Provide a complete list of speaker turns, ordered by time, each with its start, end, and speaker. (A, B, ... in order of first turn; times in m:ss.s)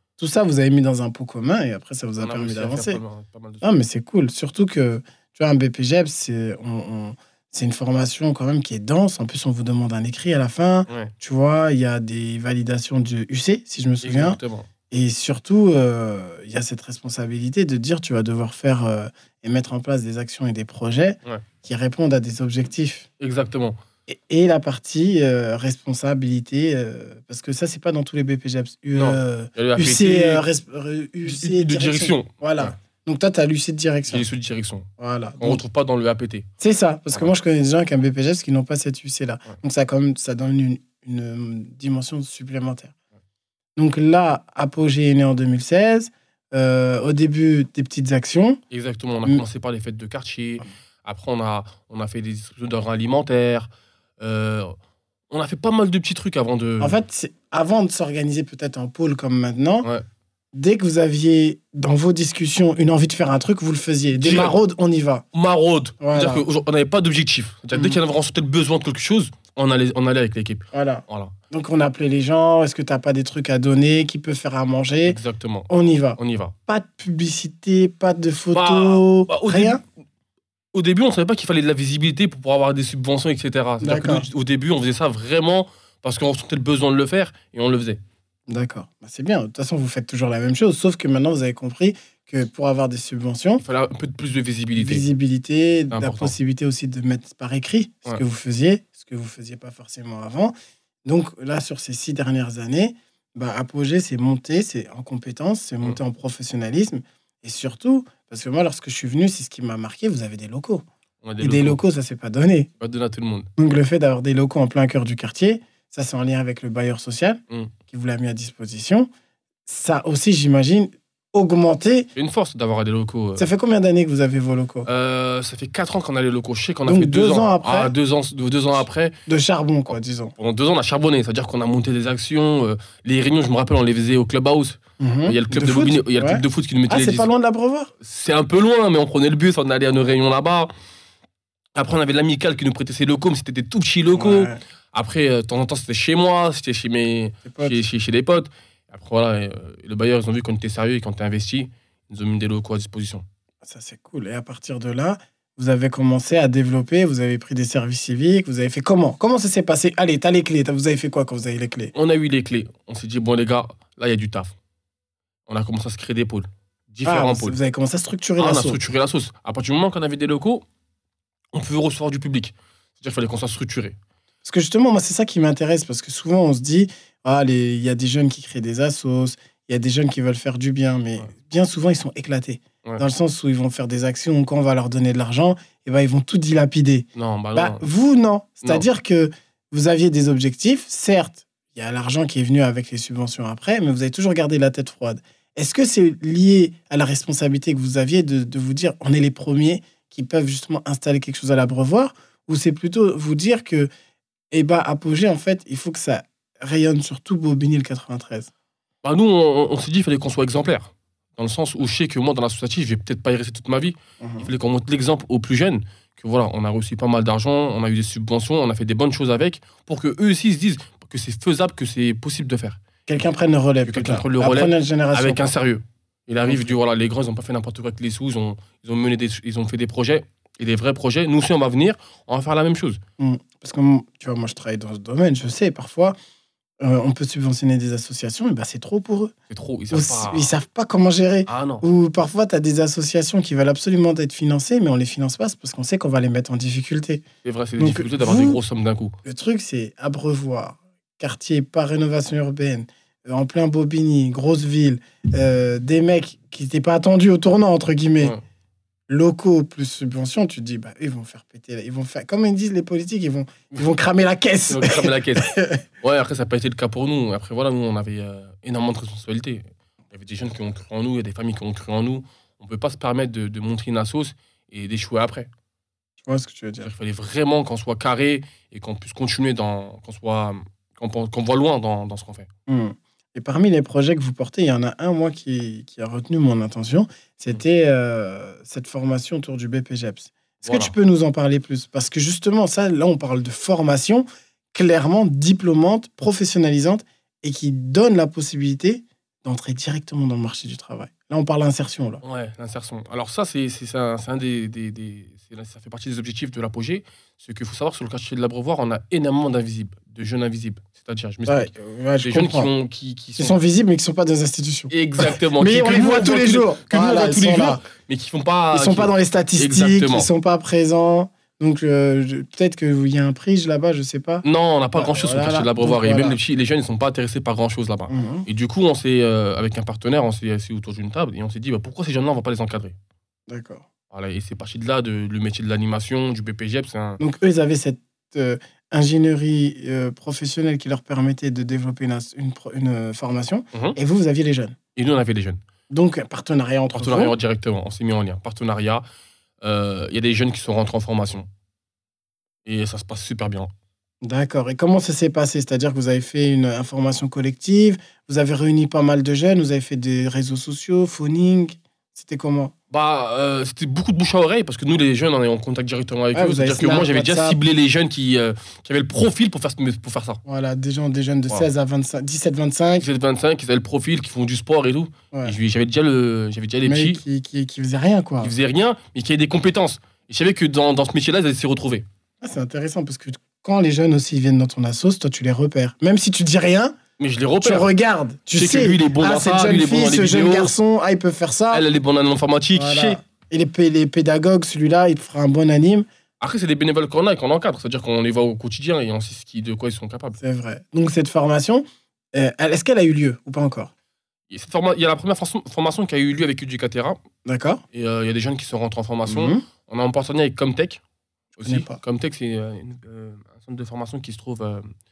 0:00.2-0:03.0 A
0:02.2-0:03.6 B
0:03.6-0:14.4 A
0:10.9-0:11.1 B
0:14.0-0:14.7 B
0:14.9-0:23.1 A
0:23.2-0:23.8 B
0:24.1-0:34.3 A
0:28.9-0:30.4 B
0:31.2-0:32.7 B
0:34.1-0:34.9 B
0:35.0-0:35.6 A
0:35.4-0:36.5 B
0:36.6-0:42.9 A
0:43.8-0:48.6 A
0:48.7-0:54.7 B
0:55.3-0:57.0 B
0:56.8-0:59.9 A
1:00.5-1:05.2 A
1:04.2-1:04.6 B
1:05.3-1:11.3 B
1:06.0-1:06.4 A
1:07.7-1:08.0 A
1:10.7-1:19.8 A
1:15.0-1:16.6 B
1:18.5-1:19.8 B
1:20.7-1:28.0 B
1:23.8-1:24.2 A
1:28.5-1:33.6 A
1:33.6-1:35.0 B
1:34.8-1:40.5 A
1:35.9-1:36.3 B
1:41.0-1:50.8 A
1:51.2-1:51.8 B
1:51.4-1:52.7 A
1:52.8-1:53.5 B
1:53.6-1:59.1 A
1:59.6-2:02.1 A
2:02.2-2:03.5 B
2:03.4-2:04.9 A
2:04.8-2:09.2 B
2:06.8-2:07.9 A
2:09.3-2:10.3 A
2:10.4-2:17.3 B
2:15.0-2:17.9 A
2:18.0-2:20.7 B
2:21.7-2:33.2 B
2:24.1-2:24.6 A
2:27.5-2:27.8 A
2:33.6-2:41.9 A
2:41.9-2:44.5 B
2:45.5-2:47.6 B
2:47.0-2:48.8 A
2:48.4-2:50.6 B
2:51.5-2:54.0 B
2:54.4-3:23.9 A
3:07.1-3:07.8 B
3:24.5-3:28.5 A
3:29.0-3:42.8 B
3:34.2-3:34.5 A
3:43.1-3:45.5 A
3:43.8-3:53.0 B
3:46.4-3:46.8 A
3:53.2-3:56.2 A
3:56.8-3:59.3 A
3:59.5-4:00.5 B
3:59.9-4:07.2 A
4:01.5-4:01.8 B
4:07.4-4:09.1 B
4:07.8-4:08.6 A
4:09.2-4:18.4 A
4:19.1-4:25.8 A
4:24.7-4:35.5 B
4:36.2-4:36.9 A
4:36.8-4:42.5 B
4:42.7-5:02.2 A
4:50.6-4:50.9 B
5:02.2-5:13.6 B
5:11.5-5:12.7 A
5:13.4-5:17.8 A
5:14.9-5:20.3 B
5:18.7-5:26.4 A
5:24.4-5:33.0 B
5:28.1-5:28.5 A
5:33.5-5:33.8 A
5:34.1-5:37.2 B
5:37.2-5:44.8 A
5:45.0-5:45.6 B
5:45.9-5:47.4 A
5:46.9-5:49.0 B
5:49.6-5:51.5 B
5:52.6-5:53.7 B
5:54.2-6:02.7 A
6:02.9-6:10.4 B
6:06.3-6:07.6 A
6:10.4-6:13.1 A
6:13.0-6:17.2 B
6:16.8-6:18.5 A
6:18.4-6:22.0 B
6:22.4-6:27.0 A
6:27.2-6:27.9 B
6:27.6-6:31.8 A
6:28.6-6:30.7 B
6:31.7-6:33.2 B
6:32.7-6:36.0 A
6:36.4-6:40.4 B
6:40.4-6:43.9 A
6:44.5-6:47.2 B
6:47.4-6:47.8 A
6:47.9-6:51.0 B
6:49.3-6:49.6 A
6:51.6-6:54.9 B
6:51.6-6:52.0 A